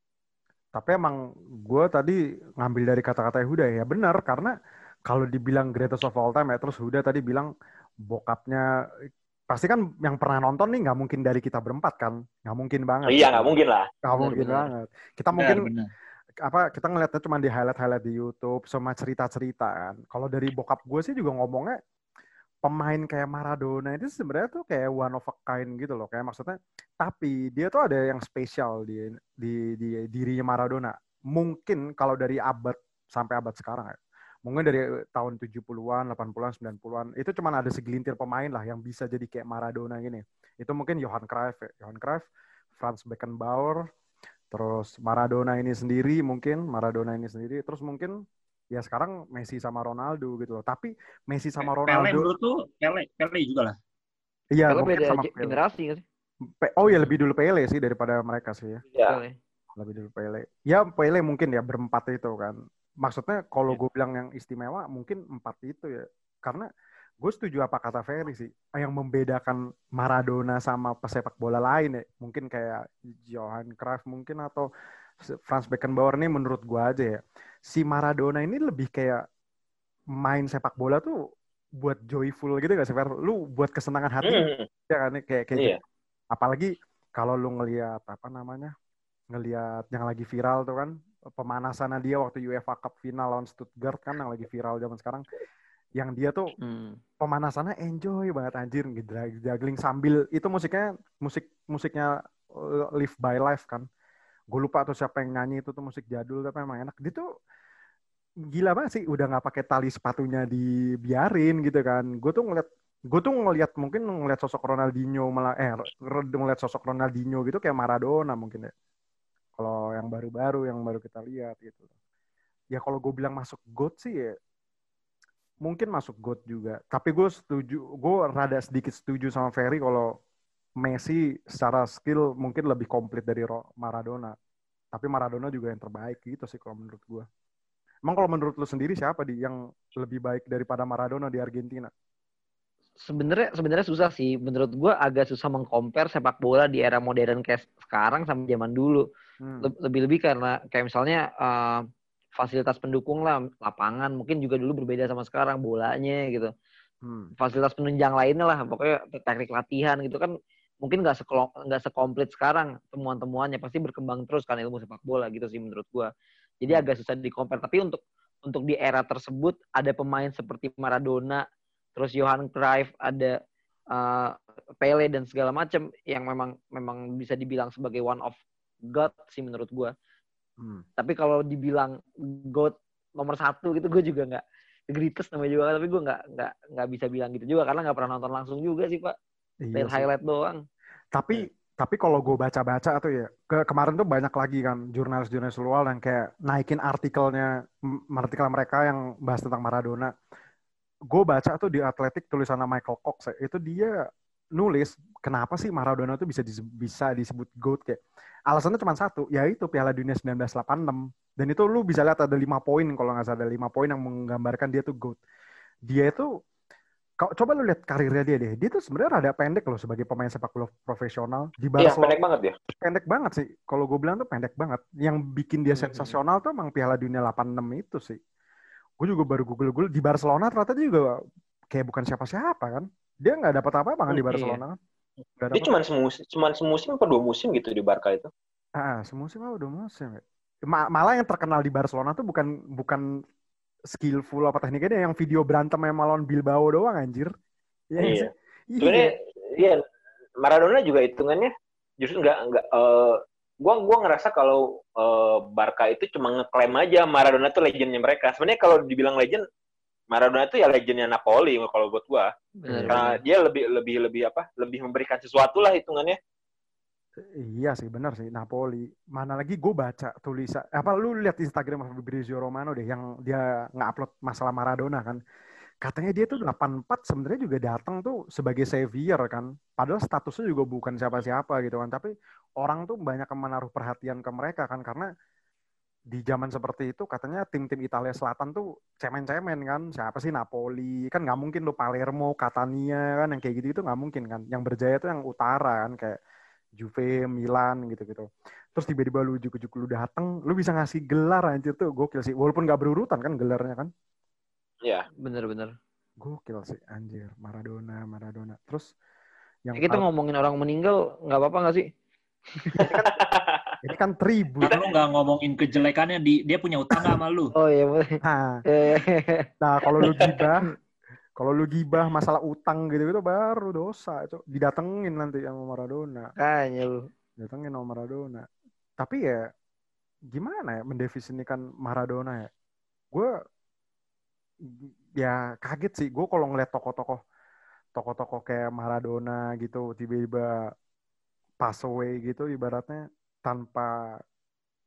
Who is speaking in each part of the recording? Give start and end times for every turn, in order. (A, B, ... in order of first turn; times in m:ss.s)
0:00.8-0:04.5 A
0:05.1-0:07.5 A
0:08.1-0:08.6 A
0:09.5-0:13.5 A
0:13.1-0:13.9 B
0:14.0-0:15.7 A
0:14.2-0:14.7 C
0:15.4-0:15.9 D
0:16.4-0:21.8 A
0:22.6-0:43.9 A
0:44.5-0:48.2 A
0:48.7-0:52.3 A
0:51.9-0:53.7 D
0:54.5-0:55.6 A
0:54.7-0:56.0 C
0:56.6-0:58.8 A
0:58.9-0:59.2 B
0:59.0-0:59.4 C
0:59.8-1:06.7 A
1:07.2-1:14.7 A
1:15.2-1:19.2 A
1:20.2-1:21.2 A
1:21.8-1:25.8 A
1:24.2-1:24.7 B
1:26.3-1:28.7 A
1:29.3-1:35.2 A
1:36.0-1:36.5 A
1:36.6-1:37.0 C
1:37.2-1:43.9 A
1:44.5-1:47.2 A
1:48.5-1:58.7 A
1:59.6-2:01.8 A
2:02.7-2:04.4 A
2:05.6-2:10.1 A
2:10.8-2:14.4 A
2:14.9-2:17.3 A
2:18.1-2:21.9 A
2:23.1-2:29.0 C
2:29.4-2:29.7 A
2:29.6-2:31.8 C
2:32.4-2:36.5 C
2:37.0-2:37.3 A
2:37.4-2:46.1 C
2:46.6-2:51.4 C
2:52.0-2:53.4 C
2:53.9-2:59.9 C
3:00.6-3:00.8 A
3:01.0-3:09.2 C
3:09.6-3:10.1 A
3:09.8-3:10.6 C
3:11.1-3:20.1 A
3:21.1-3:24.0 A
3:24.6-3:28.0 A
3:28.5-3:35.2 A
3:35.9-3:36.3 A
3:37.2-3:42.2 A
3:41.8-3:42.6 B
3:42.7-3:48.2 A
3:49.0-3:51.1 A
3:51.7-3:54.8 A
3:54.1-3:54.6 C
3:55.4-3:55.7 A
3:55.5-3:58.3 B
3:58.8-4:03.0 A
4:03.9-4:07.3 A
4:07.9-4:09.1 A
4:08.0-4:09.8 B
4:10.4-4:19.4 B
4:20.1-4:22.3 B
4:22.6-4:23.2 C
4:22.7-4:23.0 A
4:22.9-4:26.2 B
4:27.4-4:35.2 A
4:35.8-4:45.1 A
4:46.1-4:56.2 A
4:56.8-5:03.9 A
5:05.2-5:05.7 C
5:06.2-5:08.9 A
5:09.7-5:10.0 A
5:09.8-5:11.9 C
5:12.6-5:12.9 C
5:12.7-5:13.1 A
5:12.8-5:13.7 B
5:13.8-5:14.7 A
5:14.6-5:17.5 D
5:17.6-5:20.5 C
5:18.2-5:18.6 A
5:19.6-5:20.7 A
5:21.4-5:26.3 A
5:26.4-5:27.1 C
5:27.4-5:28.5 A
5:29.0-5:29.5 A
5:30.3-5:32.5 A
5:34.6-5:37.2 A
5:38.0-5:40.7 A
5:41.6-5:43.9 A